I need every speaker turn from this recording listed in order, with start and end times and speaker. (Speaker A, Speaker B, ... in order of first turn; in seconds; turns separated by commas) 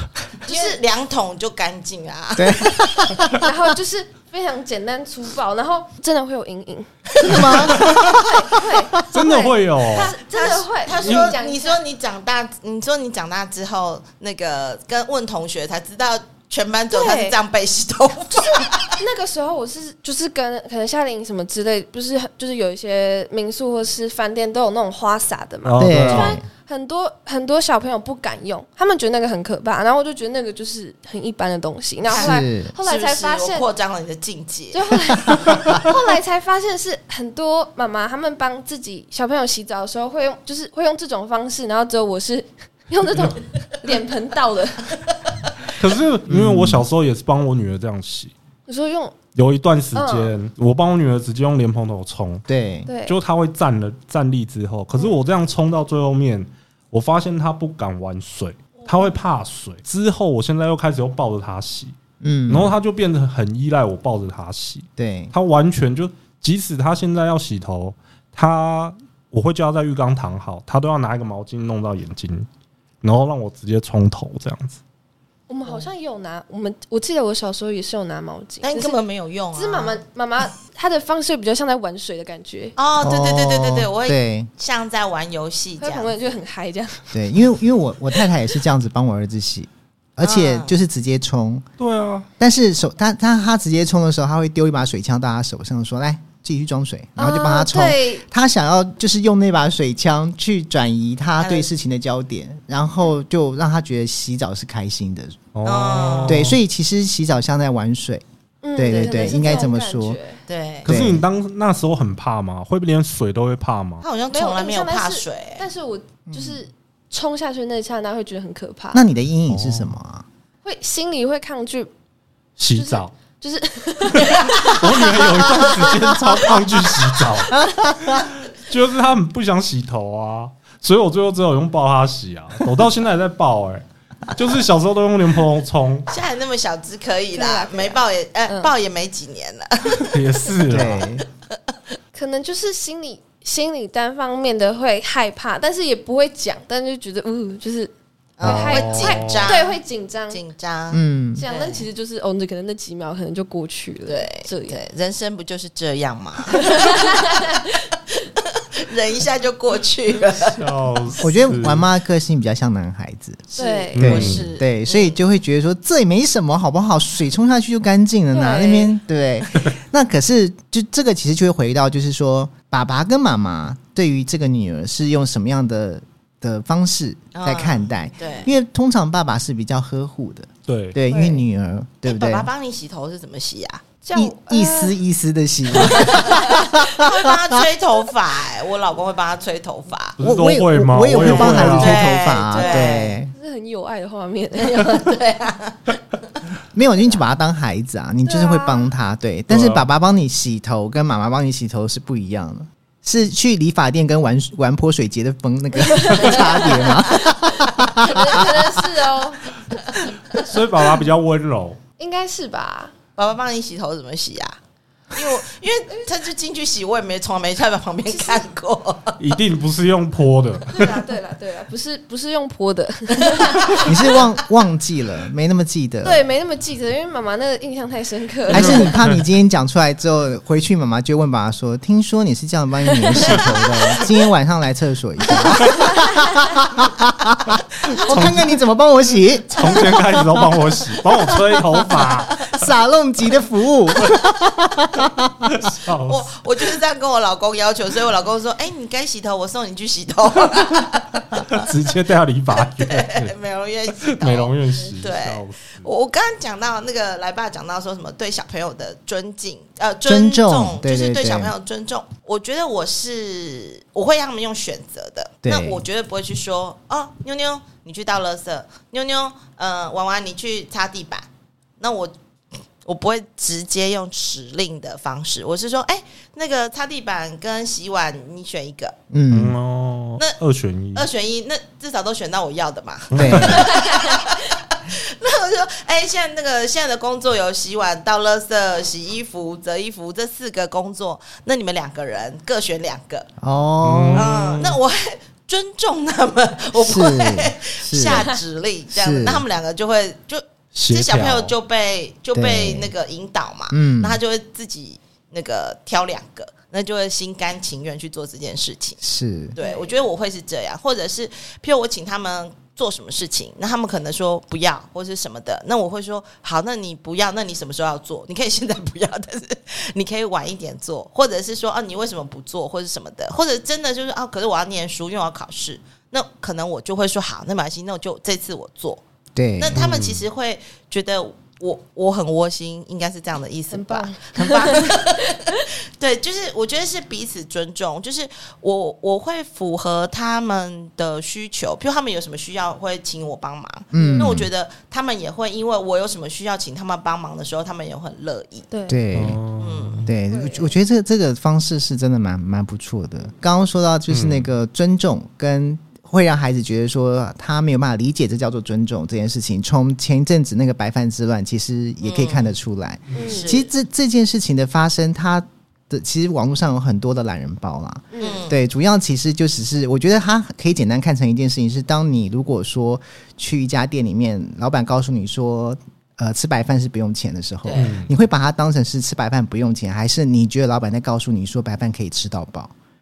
Speaker A: 0.4-3.2, Speaker B: 0.5-0.8, Speaker C: 2.4-3.3, Speaker B: 3.4-11.8, Speaker C: 7.2-8.0, Speaker A: 7.2-8.2, Speaker D: 9.1-10.1, Speaker A: 9.9-19.0, Speaker D: 11.0-11.3, Speaker B: 16.9-17.4, Speaker B: 18.5-33.7, Speaker D: 25.6-26.4, Speaker C: 25.8-26.4, Speaker A: 32.1-35.9, Speaker C: 32.1-32.7, Speaker B: 34.7-45.0, Speaker D: 45.8-48.3, Speaker C: 46.3-46.8, Speaker B: 48.7-49.1, Speaker D: 49.3-52.4, Speaker B: 49.9-50.3, Speaker C: 52.5-52.9, Speaker B: 52.9-53.1, Speaker D: 53.1-61.9, Speaker C: 62.2-62.7, Speaker D: 62.5-72.5, Speaker C: 65.0-65.3, Speaker D: 73.0-74.8, Speaker B: 75.5-79.0, Speaker A: 78.6-80.0, Speaker B: 79.5-82.7, Speaker A: 82.8-86.3, Speaker C: 83.0-84.5, Speaker B: 85.8-87.2, Speaker C: 87.1-91.6, Speaker A: 90.2-90.8, Speaker D: 91.8-92.3, Speaker C: 92.4-105.4, Speaker B: 97.2-98.2, Speaker A: 101.4-101.7, Speaker D: 105.5-106.6, Speaker A: 105.6-106.5, Speaker C: 106.2-108.2, Speaker B: 108.6-110.4, Speaker C: 108.8-110.2, Speaker A: 108.9-109.7, Speaker A: 110.5-110.9, Speaker D: 110.8-114.0, Speaker C: 110.8-111.2, Speaker A: 114.0-115.6, Speaker B: 114.3-119.0, Speaker C: 116.3-116.6, Speaker C: 118.9-120.2, Speaker D: 119.5-119.9, Speaker B: 120.6-121.9, Speaker D: 122.6-123.1, Speaker B: 122.7-125.7, Speaker D: 124.2-136.1, Speaker C: 125.9-126.3, Speaker C: 127.5-128.2, Speaker A: 136.1-140.2, Speaker B: 137.3-138.7, Speaker D: 140.0-141.1, Speaker C: 140.7-141.2, Speaker B: 142.1-150.4, Speaker A: 148.4-149.8, Speaker D: 148.4-149.5, Speaker A: 150.3-151.9, Speaker C: 150.9-151.4, Speaker B: 151.3-154.8, Speaker A: 154.1-157.2, Speaker B: 156.5-157.7, Speaker A: 158.4-161.1, Speaker D: 160.5-161.8, Speaker C: 161.2-163.4, Speaker A: 163.5-165.2, Speaker B: 163.6-164.0, Speaker D: 163.9-164.5, Speaker C: 164.0-182.5, Speaker B: 168.3-168.9, Speaker A: 177.3-178.5, Speaker D: 180.7-181.0, Speaker B: 181.1-181.4, Speaker A: 182.1-183.9, Speaker B: 184.0-184.9, Speaker C: 184.1-187.3, Speaker A: 185.8-190.2, Speaker B: 185.8-186.6, Speaker D: 190.2-192.1, Speaker C: 190.2-193.3, Speaker A: 191.2-193.2, Speaker B: 192.5-195.1, Speaker A: 194.6-196.0, Speaker C: 196.7-208.6, Speaker B: 198.2-198.9, Speaker D: 199.5-199.9, Speaker B: 205.9-209.8, Speaker D: 210.3-211.8, Speaker B: 212.0-212.9, Speaker A: 213.2-214.6, Speaker A: 215.1-219.2, Speaker B: 218.1-218.4, Speaker D: 219.2-220.9, Speaker B: 220.7-223.9, Speaker A: 223.3-223.8, Speaker C: 223.8-226.2, Speaker B: 226.0-228.9, Speaker D: 228.5-229.2, Speaker C: 228.5-240.6, Speaker B: 233.1-233.4, Speaker D: 238.1-238.5, Speaker D: 239.5-242.5, Speaker C: 242.4-245.6, Speaker D: 245.5-246.3, Speaker A: 246.1-251.5, Speaker D: 251.5-253.3, Speaker A: 252.5-271.3, Speaker D: 254.0-255.9, Speaker C: 260.0-261.5, Speaker C: 265.4-265.8, Speaker A: 271.8-272.1, Speaker A: 272.8-279.0, Speaker C: 279.1-279.6, Speaker D: 279.3-281.1, Speaker A: 280.9-293.3, Speaker D: 283.1-283.6, Speaker C: 283.1-283.7, Speaker C: 293.4-294.5, Speaker D: 293.8-294.7, Speaker A: 294.1-309.0, Speaker C: 296.8-298.3, Speaker C: 298.9-299.4, Speaker D: 300.7-301.5, Speaker C: 302.3-302.9, Speaker C: 303.7-304.2, Speaker C: 309.0-309.6, Speaker A: 309.5-329.0, Speaker B: 309.6-309.9, Speaker C: 329.3-330.0, Speaker A: 329.6-348.7, Speaker D: 329.8-330.2, Speaker B: 333.7-334.9, Speaker C: 343.9-344.5, Speaker B: 343.9-344.3, Speaker B: 348.7-349.0, Speaker C: 348.9-349.4, Speaker D: 349.1-350.1, Speaker A: 349.6-350.1, Speaker C: 350.0-382.7, Speaker B: 350.3-350.7, Speaker D: 354.1-354.5, Speaker A: 362.0-362.5, Speaker B: 363.1-363.5, Speaker A: 363.2-363.7, Speaker B: 368.1-368.4, Speaker A: 368.2-368.6, Speaker A: 377.6-377.9, Speaker D: 377.7-378.1